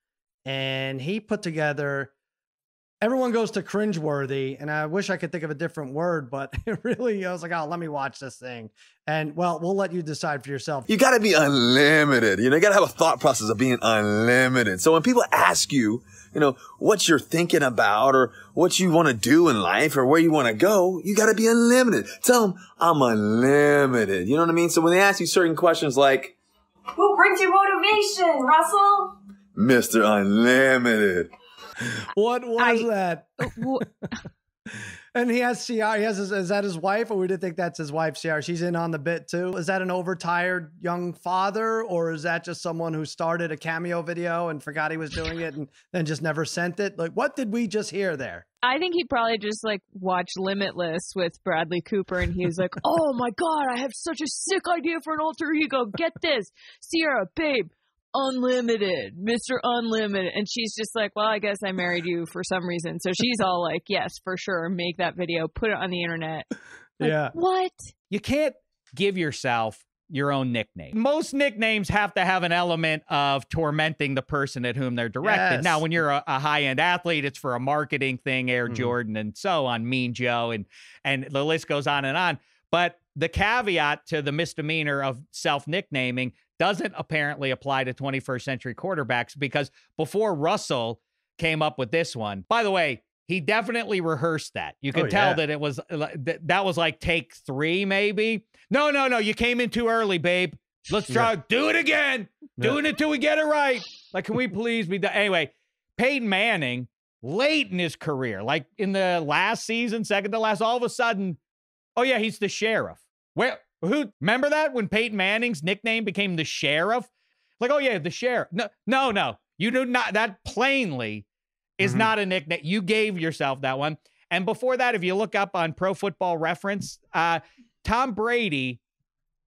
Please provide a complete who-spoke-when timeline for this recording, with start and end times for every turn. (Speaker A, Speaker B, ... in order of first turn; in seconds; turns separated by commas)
Speaker A: 0.5-2.1, Speaker A: 3.0-10.9, Speaker B: 10.9-26.4, Speaker C: 26.9-29.1, Speaker B: 29.6-31.3, Speaker A: 32.1-33.6, Speaker D: 32.6-32.9, Speaker D: 33.5-33.8, Speaker A: 35.1-48.5, Speaker D: 48.6-66.5, Speaker D: 67.0-67.8, Speaker A: 67.0-67.3, Speaker E: 68.1-111.4, Speaker A: 75.2-75.9, Speaker A: 78.7-79.0, Speaker A: 94.9-95.4, Speaker E: 112.0-121.2, Speaker E: 121.8-128.8, Speaker A: 121.8-122.1